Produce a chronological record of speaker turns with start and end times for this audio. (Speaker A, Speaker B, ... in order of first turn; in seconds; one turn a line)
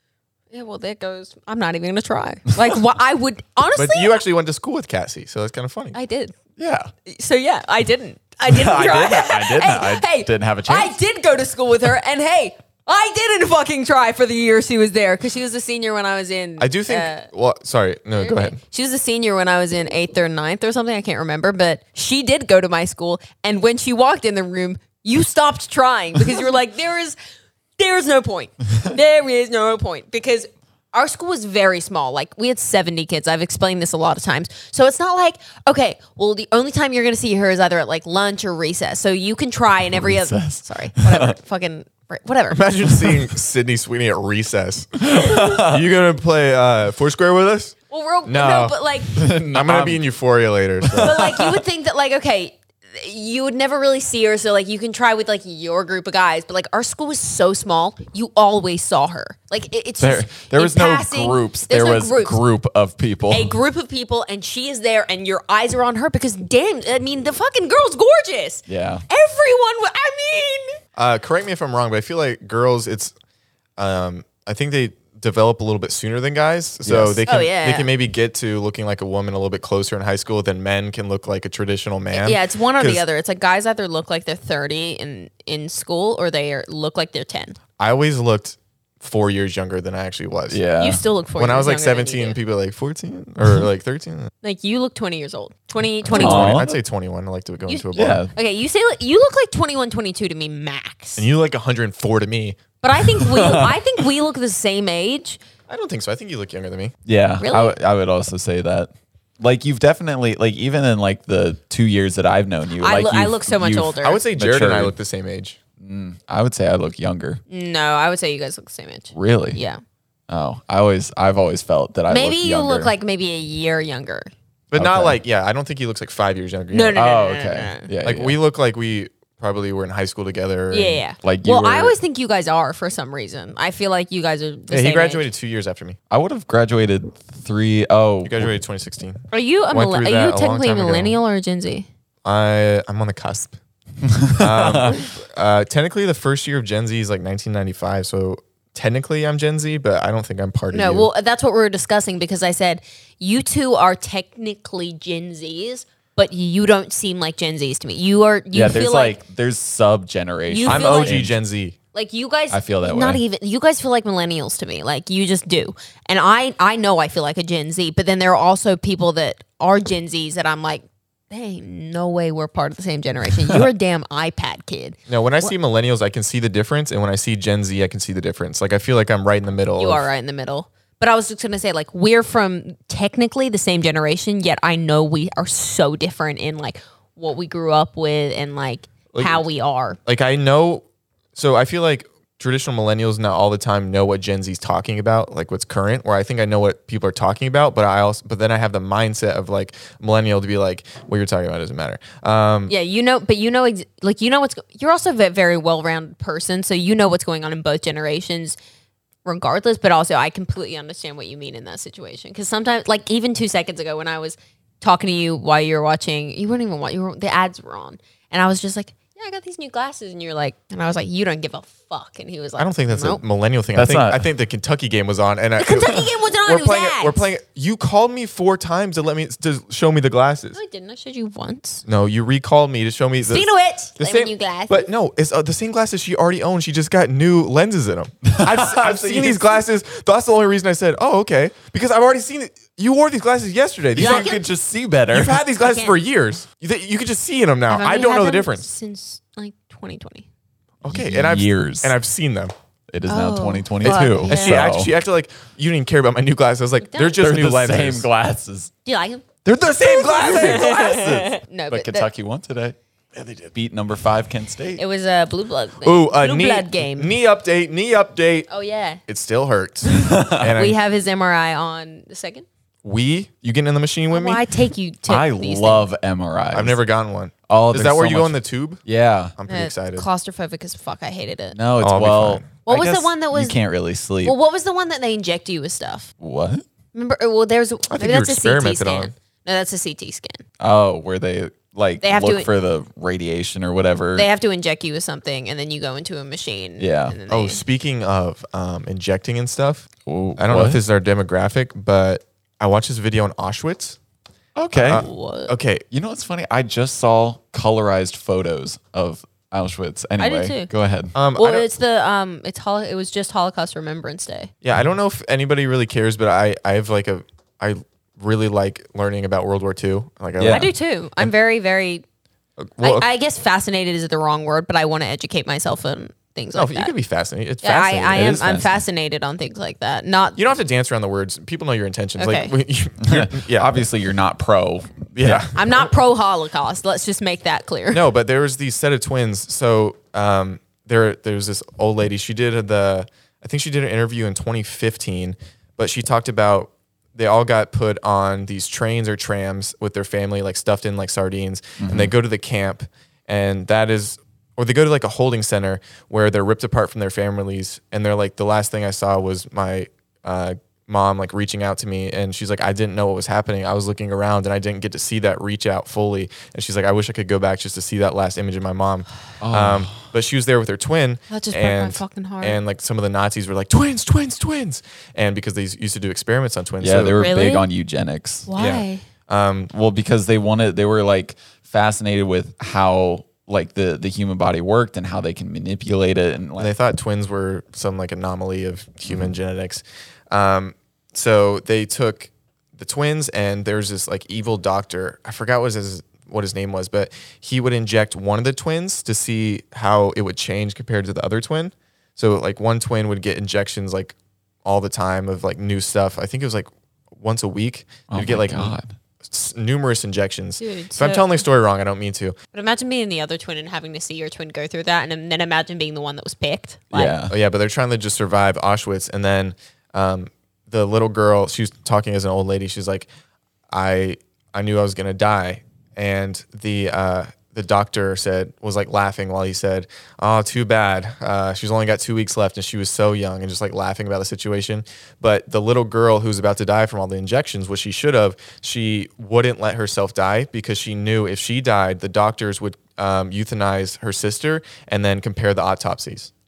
Speaker A: 0.5-4.2
Speaker B: 3.7-6.0
Speaker A: 5.9-6.3
Speaker C: 6.6-6.9
Speaker A: 7.1-17.3
Speaker C: 8.5-10.9
Speaker B: 16.6-18.6
Speaker A: 18.2-27.1
Speaker A: 27.8-42.7
Speaker C: 39.9-41.3
Speaker B: 42.5-47.7
Speaker C: 45.0-45.8
Speaker A: 47.9-49.1
Speaker B: 48.2-48.8
Speaker C: 49.1-50.0
Speaker B: 49.5-51.2
Speaker C: 50.8-51.6
Speaker A: 51.0-62.4
Speaker C: 60.0-63.5
Speaker A: 63.3-70.8
Speaker C: 68.7-69.0
Speaker B: 71.0-73.1
Speaker B: 73.8-83.0
Speaker C: 76.8-77.2
Speaker A: 77.3-77.9
Speaker A: 82.1-87.5
Speaker B: 87.8-90.6
Speaker C: 90.5-91.0
Speaker A: 90.8-92.4
Speaker B: 91.4-94.3
Speaker A: 94.4-96.7
Speaker B: 96.0-98.2
Speaker C: 96.1-96.7
Speaker A: 97.7-101.3
Speaker C: 97.9-98.3
Speaker B: 101.2-102.6
Speaker A: 102.8-105.4
Speaker C: 103.2-103.8
Speaker B: 105.7-106.9
Speaker C: 107.0-114.9
Speaker A: 107.4-107.8
Speaker A: 112.8-114.2
Speaker B: 114.0-115.6
Speaker C: 115.8-117.4
Speaker A: 117.5-119.8
Speaker C: 119.1-119.6
Speaker C: 120.3-122.9
Speaker A: 122.1-124.3
Speaker B: 124.7-127.2
Speaker C: 124.7-125.2
Speaker A: 126.7-127.9
Speaker C: 126.9-128.4
Speaker B: 128.0-131.0
Speaker A: 130.7-135.2
Speaker C: 131.2-131.9
Speaker B: 134.7-136.0
Speaker C: 136.1-138.5
Speaker B: 138.2-141.2
Speaker A: 139.3-141.9
Speaker B: 142.2-143.6
Speaker C: 144.0-145.0
Speaker B: 144.3-151.1
Speaker A: 150.7-159.2
Speaker C: 158.5-161.3
Speaker A: 160.5-161.2
Speaker B: 160.7-161.8
Speaker A: 161.9-175.5
Speaker C: 162.5-163.2
Speaker B: 175.1-180.1
Speaker A: 179.8-190.0
Speaker B: 189.1-189.4
Speaker B: 190.1-190.8
Speaker B: 191.3-202.7
Speaker A: 202.7-208.6
Speaker A: 209.2-223.2
Speaker B: 222.6-230.6
Speaker C: 223.7-224.3
Speaker A: 225.6-227.2
Speaker A: 230.5-231.8
Speaker B: 231.8-233.5
Speaker A: 233.3-234.9
Speaker B: 234.0-244.4
Speaker C: 238.2-239.6
Speaker C: 243.9-245.4
Speaker A: 244.0-244.4
Speaker B: 245.1-248.7
Speaker A: 245.6-246.0
Speaker A: 247.7-250.2
Speaker B: 250.8-252.5
Speaker C: 250.9-251.9
Speaker C: 252.9-254.9
Speaker A: 253.1-254.7
Speaker B: 253.8-258.1
Speaker A: 256.8-257.2
Speaker C: 257.2-258.7
Speaker A: 258.8-259.2
Speaker C: 259.4-262.8
Speaker A: 259.8-262.1
Speaker B: 263.1-263.5
Speaker C: 263.5-264.8
Speaker A: 264.8-267.1
Speaker B: 265.8-268.5
Speaker A: 268.5-269.0
Speaker B: 269.1-270.8
Speaker C: 269.9-270.5
Speaker A: 270.5-272.4
Speaker B: 272.8-274.4
Speaker A: 274.1-275.9
Speaker C: 275.1-276.8
Speaker B: 276.5-278.8
Speaker C: 277.5-279.4
Speaker B: 279.4-280.1
Speaker A: 279.5-281.6
Speaker C: 281.5-284.3
Speaker B: 281.8-282.5
Speaker A: 282.6-283.6
Speaker A: 284.2-286.1
Speaker C: 286.2-286.6
Speaker A: 286.9-290.4
Speaker B: 287.9-289.1
Speaker C: 290.6-294.3
Speaker A: 292.0-292.5
Speaker A: 294.1-297.6
Speaker C: 296.8-297.1
Speaker B: 297.3-304.0
Speaker C: 300.1-300.8
Speaker C: 304.6-305.0
Speaker B: 304.7-305.8
Speaker A: 304.9-305.5
Speaker C: 305.9-311.1
Speaker A: 310.2-310.7
Speaker B: 311.1-311.7
Speaker A: 311.4-314.5
Speaker B: 314.6-321.3
Speaker C: 320.4-320.7
Speaker A: 320.4-322.0
Speaker B: 322.6-323.1
Speaker A: 322.8-326.9
Speaker B: 326.5-328.6
Speaker A: 327.6-330.4
Speaker C: 328.1-328.7
Speaker B: 330.4-333.8
Speaker A: 332.2-332.5
Speaker C: 333.0-335.5
Speaker B: 335.1-335.9
Speaker A: 335.5-338.1
Speaker B: 337.9-377.3
Speaker C: 351.8-352.1
Speaker C: 369.4-370.1
Speaker A: 371.3-372.6
Speaker C: 376.8-378.5
Speaker A: 377.2-377.6
Speaker A: 378.5-379.0
Speaker B: 378.6-379.7
Speaker C: 379.7-386.7
Speaker B: 386.6-412.4
Speaker C: 408.1-408.9
Speaker A: 410.6-411.4
Speaker A: 412.5-417.1
Speaker C: 416.9-417.3
Speaker B: 417.3-423.1
Speaker B: 423.7-446.3